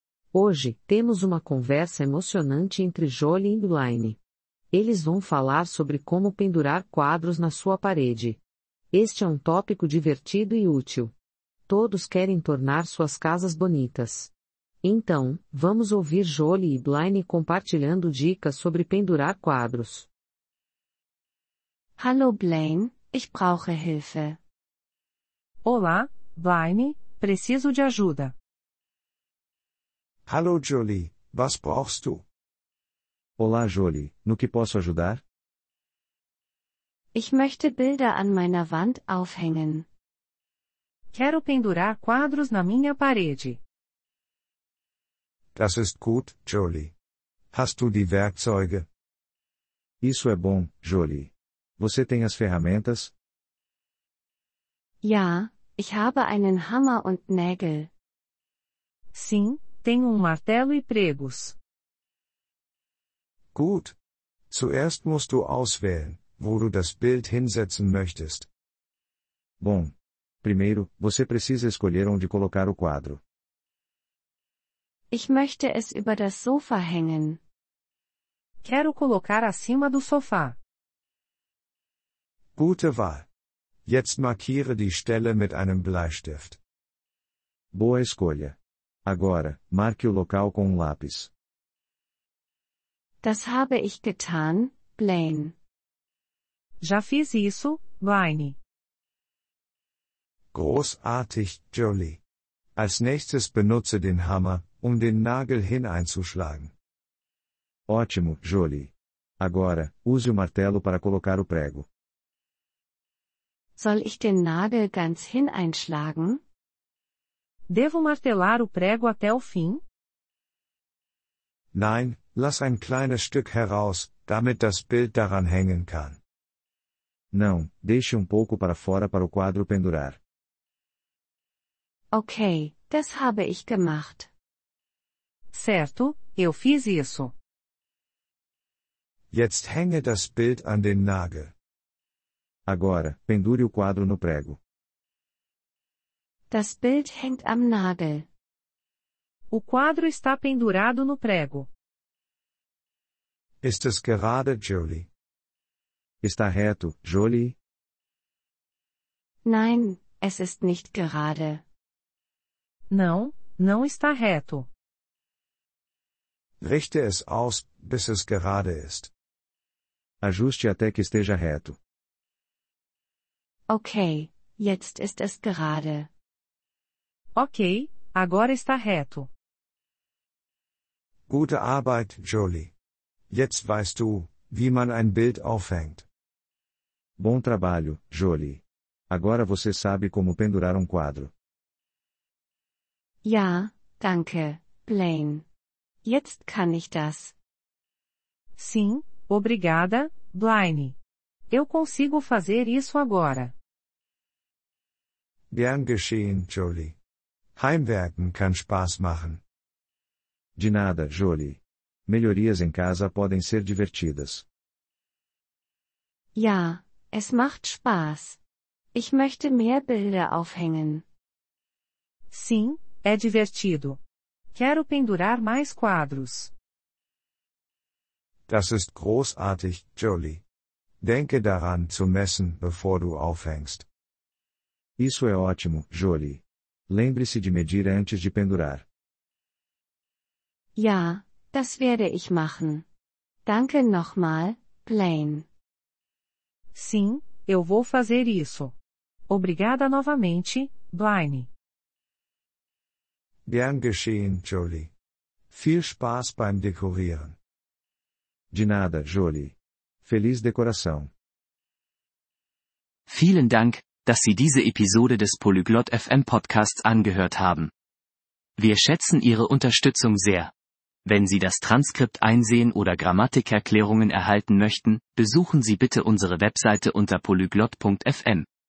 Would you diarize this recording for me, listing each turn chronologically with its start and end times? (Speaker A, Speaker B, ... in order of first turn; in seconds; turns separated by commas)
Speaker A: 0.3-4.2, Speaker A: 4.7-8.4, Speaker A: 8.9-11.1, Speaker A: 11.7-14.3, Speaker A: 14.8-20.1, Speaker B: 22.0-24.4, Speaker C: 25.6-28.3, Speaker D: 30.3-32.2, Speaker E: 33.4-35.2, Speaker B: 37.1-39.9, Speaker C: 41.1-43.6, Speaker D: 45.5-46.9, Speaker D: 47.5-48.9, Speaker E: 50.0-53.1, Speaker B: 55.0-57.9, Speaker C: 59.1-61.5, Speaker D: 63.5-63.9, Speaker D: 64.5-68.5, Speaker E: 69.6-73.2, Speaker B: 75.1-77.4, Speaker C: 78.6-80.5, Speaker D: 82.5-83.3, Speaker D: 83.8-86.6, Speaker E: 87.7-91.3, Speaker B: 93.2-95.5, Speaker C: 96.8-98.5, Speaker D: 100.5-102.2, Speaker D: 102.8-106.7, Speaker E: 107.9-111.9, Speaker B: 113.8-116.4, Speaker C: 117.7-119.8, Speaker D: 121.7-126.2, Speaker E: 127.3-130.2, Speaker B: 132.1-134.3, Speaker C: 135.5-137.3, Speaker D: 139.3-141.5, Speaker E: 142.7-144.6, Speaker B: 146.5-148.3, Speaker C: 149.5-151.7, Speaker D: 153.6-155.1, Speaker E: 156.2-157.6, Speaker B: 159.4-161.6, Speaker C: 162.9-164.7, Speaker D: 166.6-169.1, Speaker E: 170.2-171.8, Speaker B: 173.7-176.1, Speaker C: 177.3-179.3, Speaker D: 181.3-182.7, Speaker D: 183.3-186.1, Speaker E: 187.2-191.3, Speaker B: 193.2-195.4, Speaker B: 196.0-197.3, Speaker C: 198.6-200.9, Speaker C: 201.5-203.5, Speaker D: 205.5-206.9, Speaker D: 207.6-209.4, Speaker E: 210.6-214.4, Speaker B: 216.3-218.4, Speaker B: 218.9-221.0, Speaker C: 222.3-224.0, Speaker C: 224.5-226.5, Speaker D: 228.5-230.4, Speaker D: 231.0-233.8, Speaker E: 235.0-238.8, Speaker B: 240.8-242.8, Speaker B: 243.4-245.4, Speaker C: 246.7-248.7, Speaker C: 249.3-251.5, Speaker D: 253.4-254.9, Speaker D: 255.5-257.4, Speaker E: 258.5-261.1, Speaker F: 263.1-267.7, Speaker F: 268.6-270.5, Speaker F: 271.1-278.4